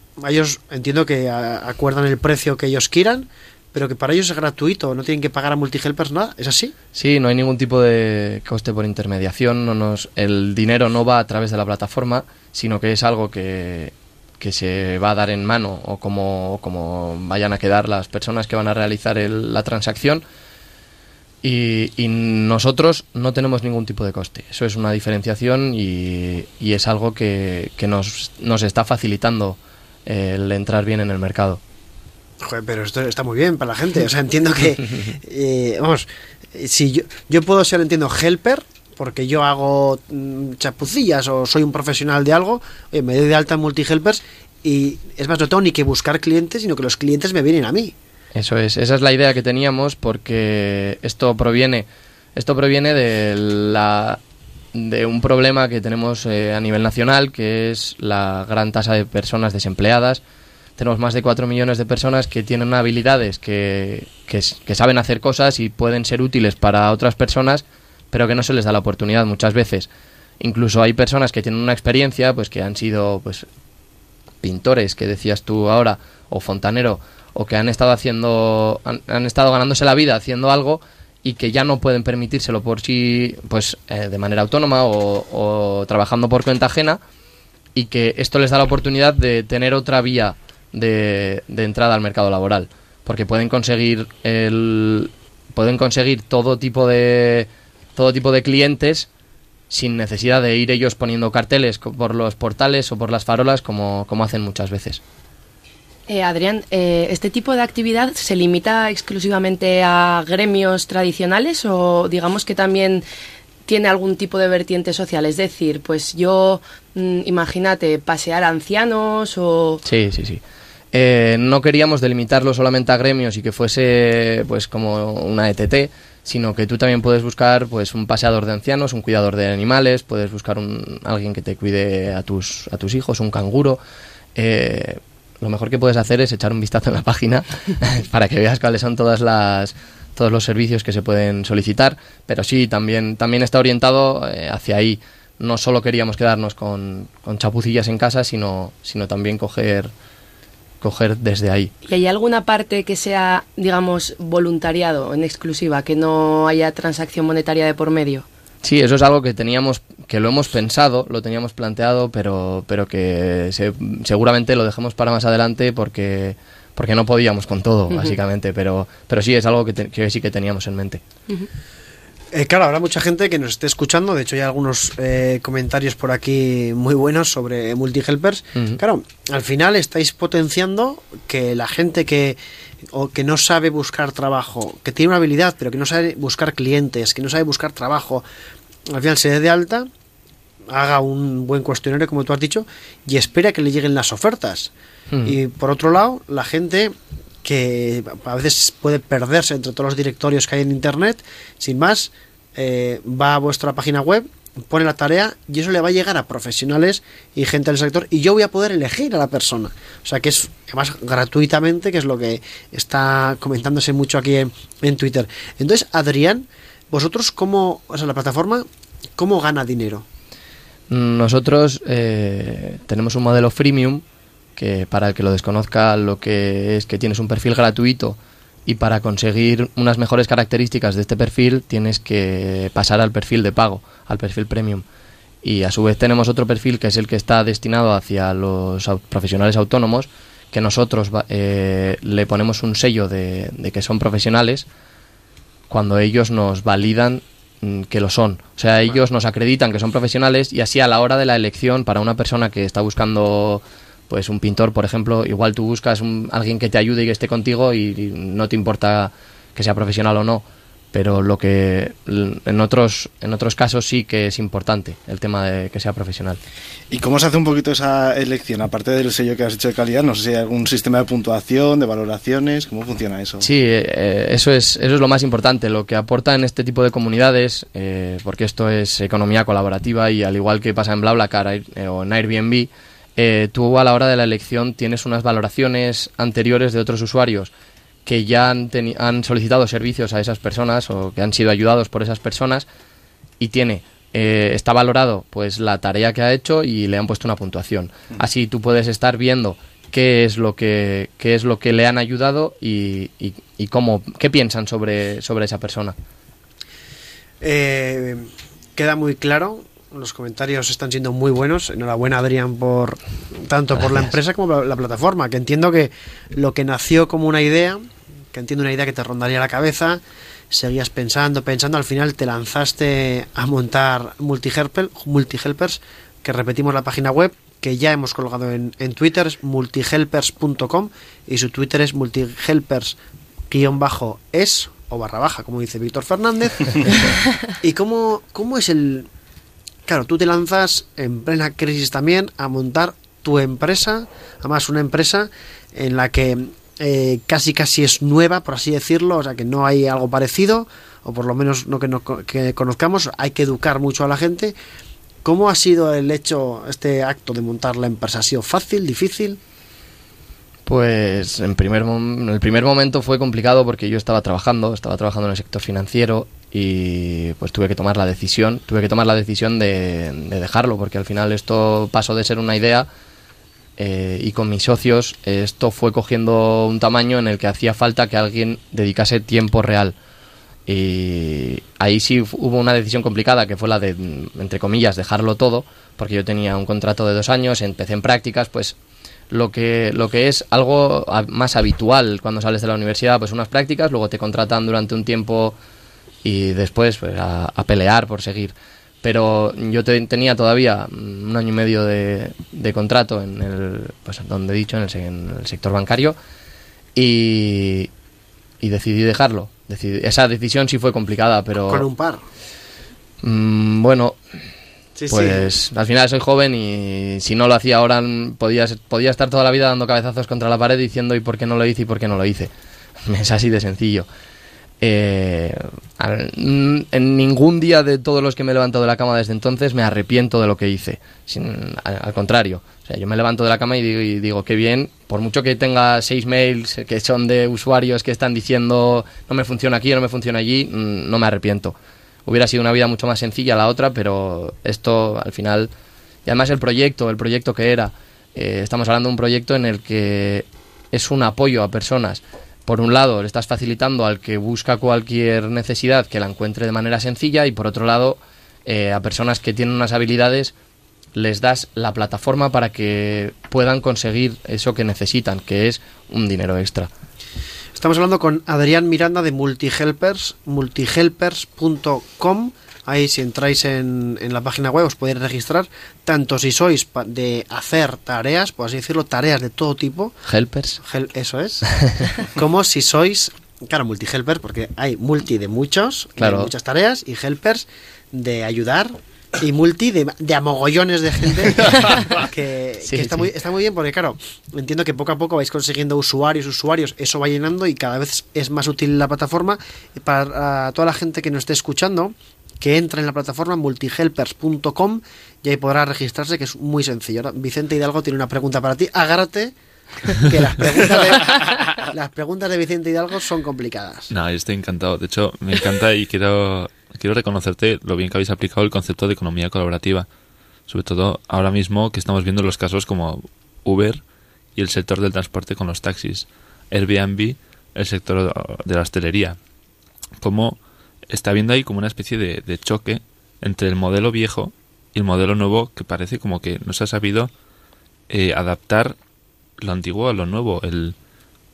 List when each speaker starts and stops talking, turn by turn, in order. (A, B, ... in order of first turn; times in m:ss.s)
0:00.2-0:06.7 A
0:06.9-0:20.2 B
0:21.4-0:31.6 B
0:32.4-0:48.0 A
0:48.3-0:54.2 B
0:54.7-1:00.2 B
1:00.8-1:09.9 B
1:10.4-1:13.4 B
1:14.4-1:27.0 B
1:27.7-1:39.1 B
1:39.7-1:45.0 B
1:46.1-1:53.0 C
1:53.7-1:59.8 C
1:59.9-2:00.4 B
2:00.9-2:13.8 B
2:14.4-2:29.9 B
2:30.8-2:31.7 B
2:31.9-2:38.3 C
2:38.6-2:51.0 B
2:47.9-2:48.2 C
2:52.3-3:02.4 A
2:58.6-2:58.8 B
3:02.9-3:08.3 A
3:08.9-3:09.9 A
3:10.7-3:14.7 A
3:15.1-3:15.4 B
3:15.2-3:38.6 A
3:39.2-3:40.0 A
3:40.9-3:44.0 B
3:44.6-3:54.8 B
3:55.4-4:04.7 B
4:05.7-4:26.4 B
4:26.9-4:33.4 D
4:33.4-4:47.5 B
4:48.0-4:52.7 B
4:53.4-5:06.0 B
5:07.4-5:33.0 A
5:13.7-5:14.1 B
5:33.5-5:36.8 A
5:37.6-5:39.1 A
5:39.9-5:54.6 A
5:55.2-5:59.4 A
6:00.7-6:12.9 B
6:13.8-6:20.0 B
6:20.7-6:28.7 B
6:29.3-6:35.6 B
6:36.2-6:46.2 B
6:47.0-6:47.9 B
6:48.6-6:51.8 B
6:51.7-6:52.2 A
6:53.2-6:54.2 B
6:55.0-6:55.5 A
6:55.1-7:02.5 B
7:03.1-7:04.1 B
7:04.8-7:21.7 B
7:22.3-7:25.7 B
7:26.3-7:40.5 B
7:41.1-7:46.9 B
7:47.7-8:00.2 A
8:00.3-8:00.8 B
8:00.8-8:01.7 A
8:02.4-8:29.5 A
8:06.2-8:06.5 B
8:12.8-8:13.3 B
8:30.2-8:34.1 A
8:34.1-8:40.0 E
8:40.7-8:44.0 E
8:44.6-8:49.4 E
8:50.2-8:50.6 E
8:51.1-8:57.3 E
8:58.1-8:59.0 E
8:59.6-9:01.0 E